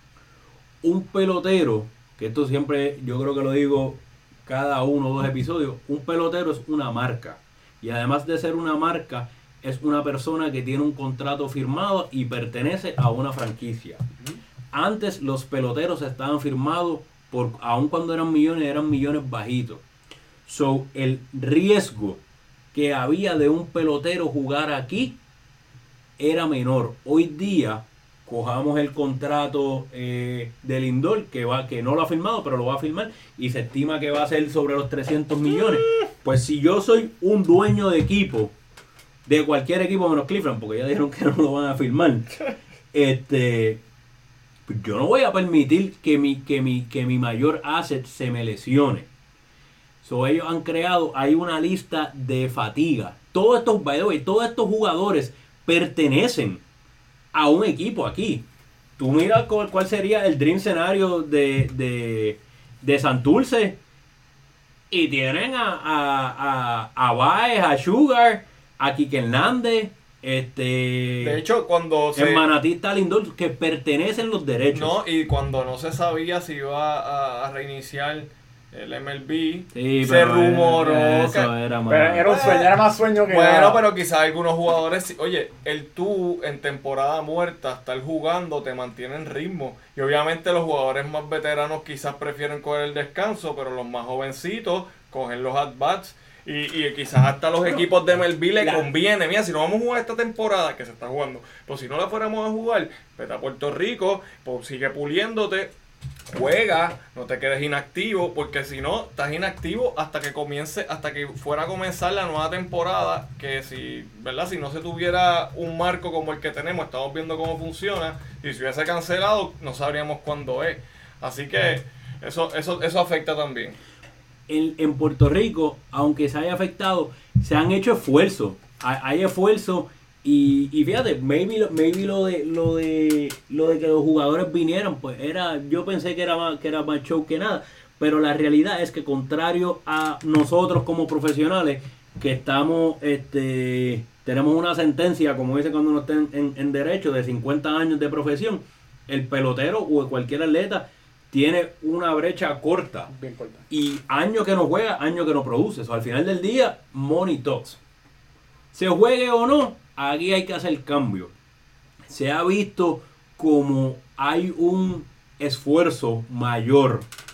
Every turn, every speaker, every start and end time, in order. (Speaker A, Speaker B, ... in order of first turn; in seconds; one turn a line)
Speaker A: 0.8-14.0
Speaker A: 14.7-19.8
Speaker A: 20.4-22.2
Speaker A: 22.7-25.2
Speaker A: 26.2-38.5
Speaker A: 39.2-42.4
Speaker A: 42.9-43.8
Speaker A: 44.7-49.1
Speaker A: 50.0-56.6
Speaker A: 57.3-58.4
Speaker A: 59.0-63.8
Speaker A: 64.9-71.4
Speaker B: 71.2-72.5
Speaker A: 72.1-75.0
Speaker B: 74.7-81.5
Speaker A: 79.7-82.3
Speaker C: 81.9-83.8
Speaker B: 82.2-105.7
Speaker B: 106.3-123.8
Speaker A: 124.5-153.1
Speaker C: 153.1-153.7
Speaker A: 153.7-157.8
Speaker A: 158.7-161.3
Speaker A: 162.1-167.1